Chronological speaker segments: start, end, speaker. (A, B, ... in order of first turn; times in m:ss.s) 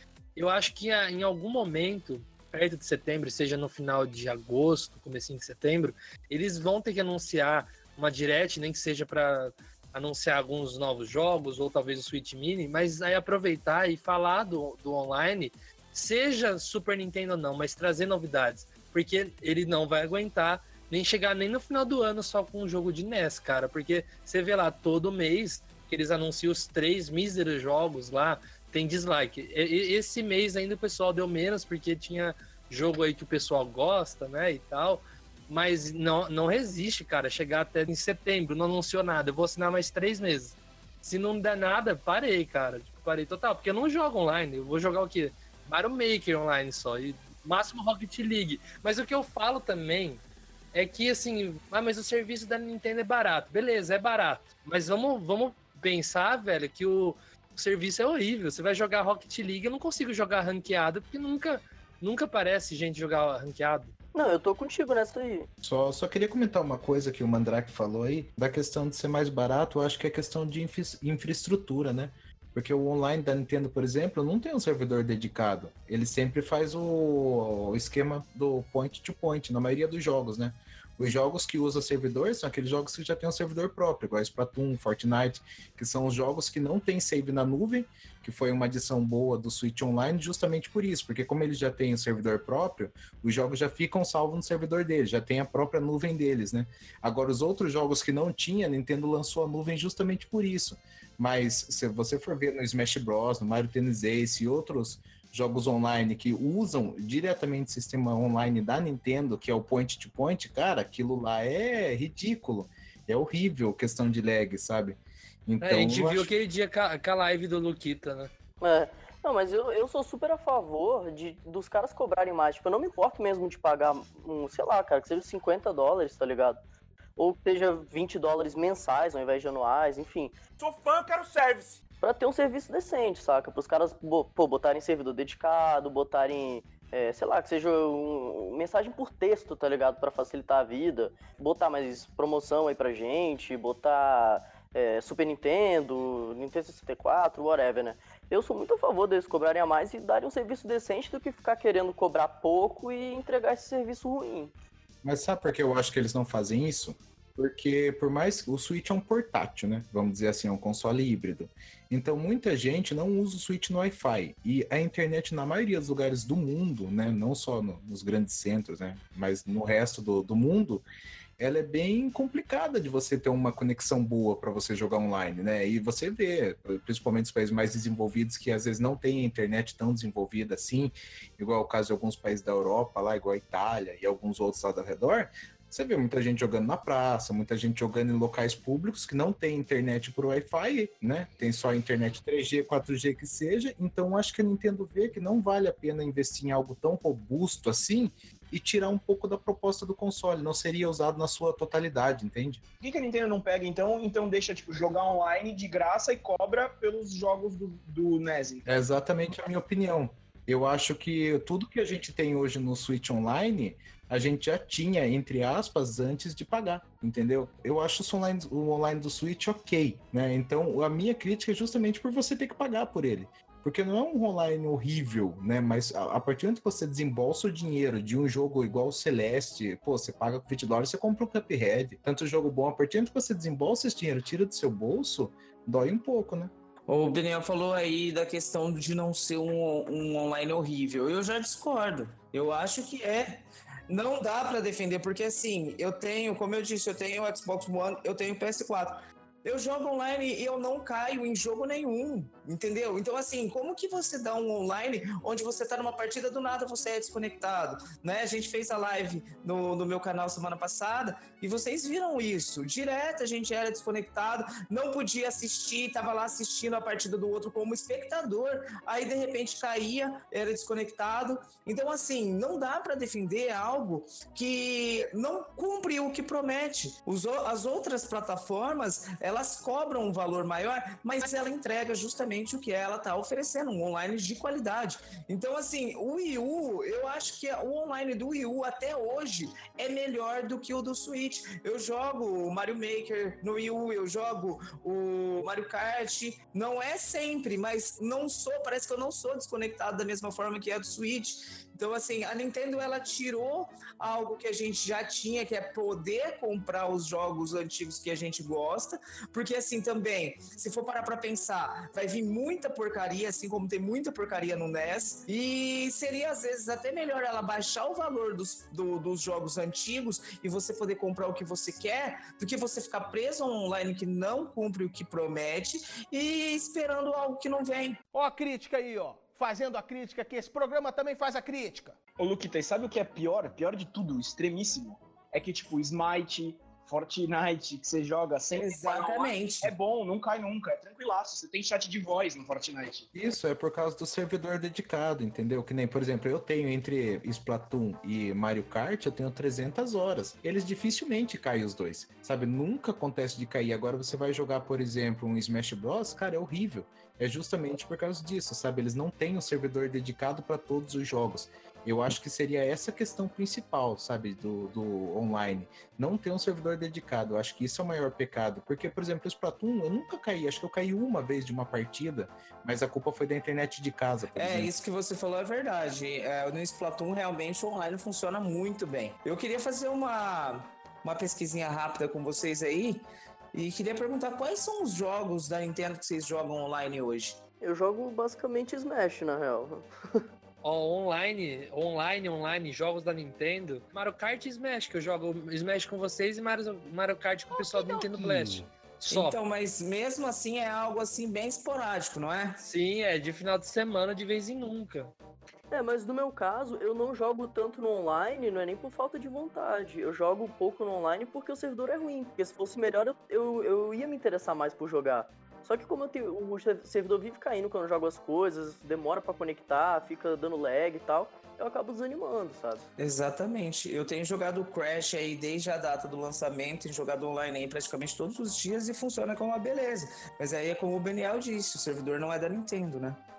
0:00.4-0:50.2 A
0:50.7-1:03.9 A
1:04.1-1:05.5 B
1:05.6-1:56.3 C
1:55.6-1:58.3 A
1:58.6-2:06.6 B
2:07.2-2:10.4 B
2:12.0-2:34.5 B
2:35.0-2:50.8 C
2:51.4-3:22.6 C
3:22.8-3:28.8 D
3:28.6-3:56.5 C
3:56.9-5:28.0 E
5:28.2-5:31.9 F
5:32.2-5:43.1 D
5:38.6-5:39.7 E
5:43.1-6:14.7 C
6:14.4-6:27.4 E
6:27.6-6:30.2 B
6:30.6-6:39.4 A
6:39.1-6:42.6 E
6:42.6-6:45.1 A
6:45.7-7:02.8 B
7:03.0-7:13.2 E